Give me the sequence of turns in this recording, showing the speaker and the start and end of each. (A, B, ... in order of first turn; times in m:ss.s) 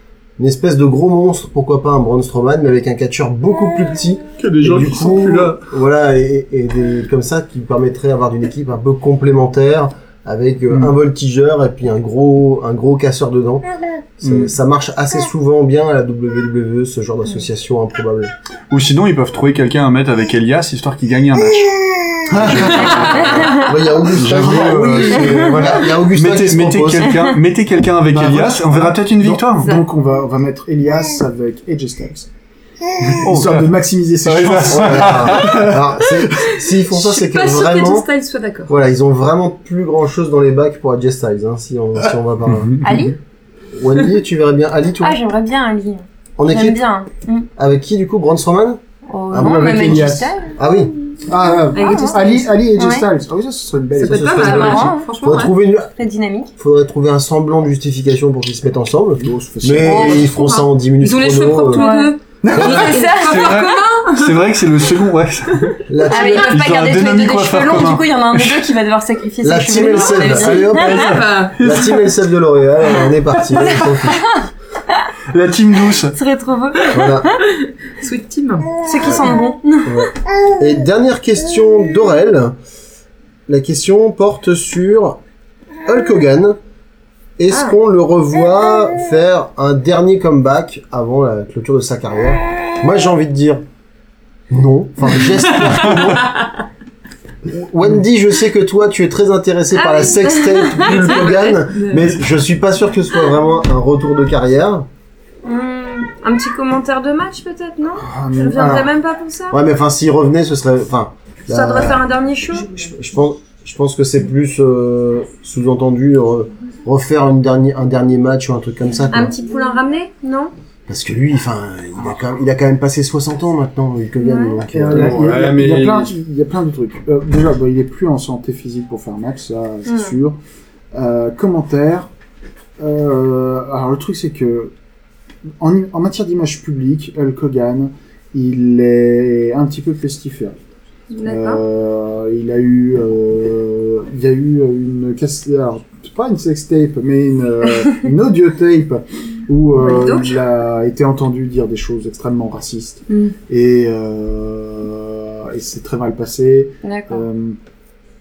0:00.4-0:18.3 A
0:04.4-0:05.6 B
0:14.2-0:14.5 B
0:18.7-0:21.8 B
0:22.3-0:27.3 A
0:22.3-0:29.7 B
0:22.4-0:23.1 C
0:22.8-0:23.8 D
0:24.6-0:24.9 C
0:25.2-0:25.6 D
0:28.1-0:32.3 C
0:33.0-0:33.7 B
0:33.2-0:35.7 C
0:34.2-0:35.9 B
0:34.7-0:38.1 A
0:36.9-0:38.7 E
0:38.7-0:42.8 A
0:42.8-0:43.2 D
0:43.8-0:45.2 A
0:45.0-0:47.5 D
0:46.4-0:46.8 A
0:47.6-0:50.9 A
0:49.1-0:50.6 D
0:49.4-0:50.2 C
0:51.3-0:54.9 C
0:51.7-0:53.0 D
0:54.0-0:55.5 E
0:54.0-0:55.9 A
0:54.2-0:55.1 D
0:56.0-0:56.5 D
0:56.6-1:01.9 A
0:59.2-1:00.3 C
0:59.9-1:04.3 E
1:01.7-1:03.8 D
1:02.4-1:03.1 C
1:03.1-1:08.7 B
1:05.9-1:06.6 A
1:06.0-1:11.1 D
1:09.4-1:14.4 A
1:10.4-1:11.6 E
1:11.6-1:12.0 B
1:13.8-1:14.4 D
1:15.3-1:16.2 B
1:16.1-1:17.4 D
1:16.9-1:17.3 A
1:18.0-1:19.4 E
1:18.8-1:20.1 D
1:19.0-1:22.6 A
1:23.5-1:25.2 A
1:25.9-1:26.6 A
1:27.4-1:33.6 A
1:34.5-1:36.4 A
1:36.0-1:36.5 E
1:37.5-1:44.9 A
1:39.8-1:41.6 D
1:41.7-1:42.1 E
1:45.4-1:49.6 D
1:48.0-1:48.8 C
1:48.5-1:48.9 A
1:49.5-1:52.1 A
1:51.5-1:52.7 D
1:52.6-1:59.4 A
1:59.1-2:00.5 D
2:00.9-2:05.3 A
2:04.2-2:04.6 D
2:04.7-2:10.4 C
2:04.9-2:06.1 B
2:09.9-2:10.1 D
2:10.9-2:12.1 C
2:12.8-2:14.7 C
2:15.6-2:20.6 C
2:21.1-2:21.6 D
2:21.2-2:37.6 C
2:29.8-2:30.4 D
2:36.8-2:37.2 D